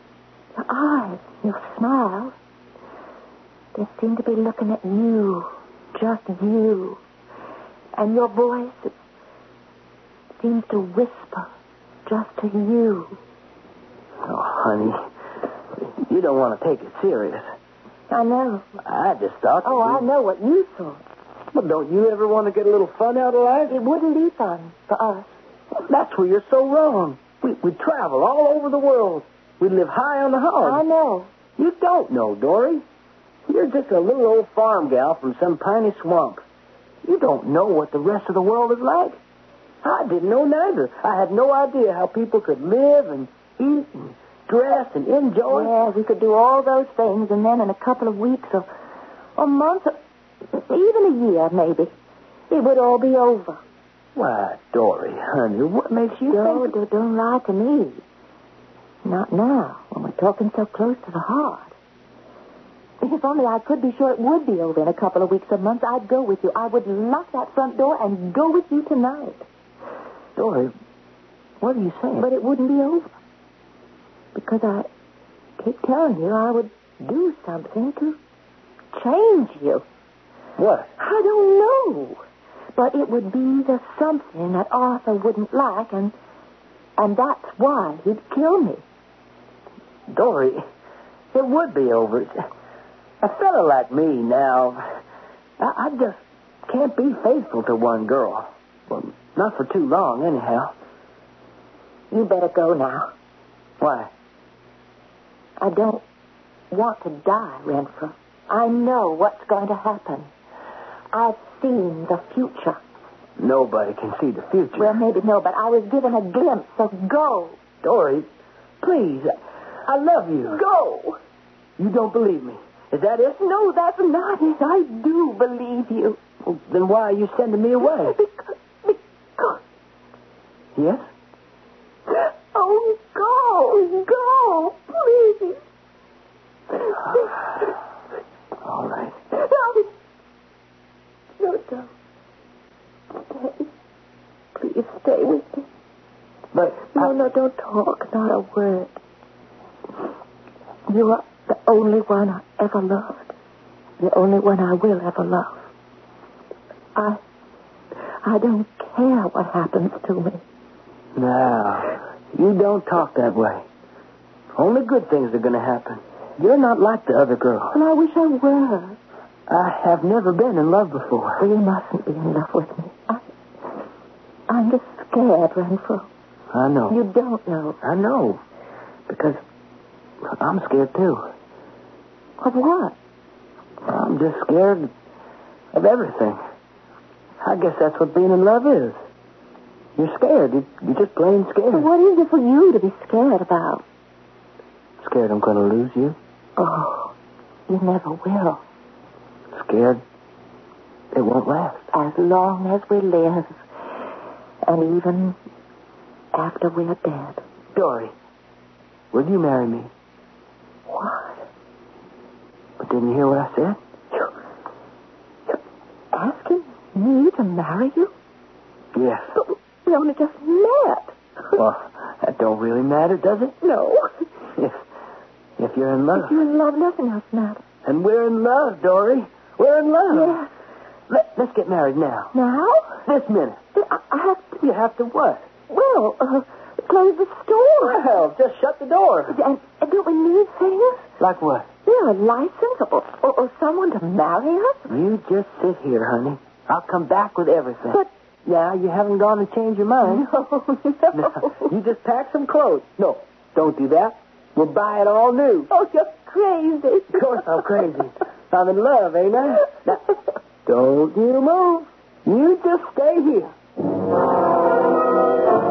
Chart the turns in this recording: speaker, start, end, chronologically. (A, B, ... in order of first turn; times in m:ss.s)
0:00.6-0:02.3 A
0:03.7-0:07.0 A
0:08.0-0:08.9 A
0:10.4-0:11.5 A
0:12.0-0:13.2 A
0:14.2-0:15.1 B
0:16.0-0:17.5 B
0:18.1-0:18.7 A
0:18.8-0:20.0 B
0:19.6-0:21.0 A
0:21.5-0:23.8 B
0:23.7-0:25.3 A
0:25.8-0:30.8 B
0:30.6-0:31.3 A
0:31.6-0:32.8 B
0:33.5-0:36.4 B
0:37.0-0:39.2 B
0:39.8-0:45.7 B
0:45.5-0:48.7 A
0:49.4-0:50.0 A
0:50.5-0:51.9 A
0:52.5-0:53.6 A
0:54.2-0:56.7 B
0:56.3-0:58.0 A
0:59.0-1:01.7 A
1:03.0-1:09.4 A
1:10.4-1:10.7 B
1:11.6-1:12.2 B
1:12.2-1:13.1 A
1:14.3-1:14.9 A
1:15.6-1:18.2 A
1:18.9-1:19.8 A
1:20.6-1:20.9 B
1:21.0-1:22.2 A
1:22.7-1:26.1 A
1:27.0-1:28.8 A
1:30.1-1:30.6 B
1:31.3-1:32.4 B
1:33.2-1:34.8 B
1:35.6-1:40.7 B
1:42.1-1:43.1 A
1:43.8-1:44.1 B
1:45.6-1:46.0 A
1:46.7-1:50.3 A
1:51.1-1:52.8 A
1:53.4-1:55.0 B
1:54.8-1:57.6 A
1:57.8-1:58.3 B
1:58.8-1:59.3 B
1:59.8-2:00.6 B
2:00.5-2:01.2 A
2:01.8-2:03.4 B
2:03.4-2:06.2 A
2:06.4-2:08.2 B
2:07.8-2:09.6 A
2:10.8-2:11.0 B
2:12.1-2:15.6 A
2:16.9-2:17.3 A
2:18.6-2:19.2 B
2:19.3-2:19.9 A
2:21.4-2:21.9 A
2:23.2-2:23.7 A
2:24.5-2:25.6 A
2:26.5-2:27.1 B
2:26.9-2:29.0 A
2:30.9-2:33.3 A
2:34.0-2:35.6 A
2:36.9-2:37.2 A
2:38.2-2:40.4 A
2:41.1-2:43.6 B
2:44.5-2:47.7 B
2:47.7-2:49.0 A
2:49.5-2:51.4 B
2:51.4-2:53.2 A
2:54.5-2:56.1 A
2:56.5-2:57.0 B
2:56.9-2:57.8 A
2:57.8-2:58.4 B
2:59.1-2:59.4 B
3:00.2-3:01.3 B
3:02.4-3:02.9 A
3:03.8-3:04.9 B
3:05.7-3:06.4 B
3:07.4-3:09.0 B
3:10.0-3:11.9 B
3:11.7-3:13.8 A
3:15.0-3:16.2 B
3:16.6-3:17.1 A
3:17.7-3:18.6 A
3:19.5-3:20.0 B
3:21.1-3:21.8 B
3:21.9-3:23.6 A
3:24.6-3:25.4 A
3:26.3-3:27.4 A
3:27.7-3:28.1 B
3:29.1-3:29.9 B
3:30.9-3:31.4 A
3:32.8-3:33.8 B
3:36.1-3:38.1 A
3:38.9-3:39.3 B
3:39.4-3:41.1 A
3:41.5-3:43.6 B
3:43.6-3:44.2 A
3:45.6-3:46.3 B
3:46.1-3:47.6 A
3:47.8-3:50.4 B
3:50.1-3:50.5 A
3:51.1-3:52.3 B
3:52.3-3:53.0 A
3:53.0-3:53.6 B
3:53.7-3:54.6 A
3:54.6-3:55.4 B
3:55.7-3:58.0 A
3:57.8-3:59.4 B
3:59.3-4:01.0 A
4:01.2-4:01.7 B
4:01.8-4:04.9 A
4:04.9-4:10.3 B
4:10.0-4:11.7 A
4:11.1-4:15.7 B
4:15.7-4:17.6 A
4:17.1-4:20.0 B
4:20.6-4:23.5 B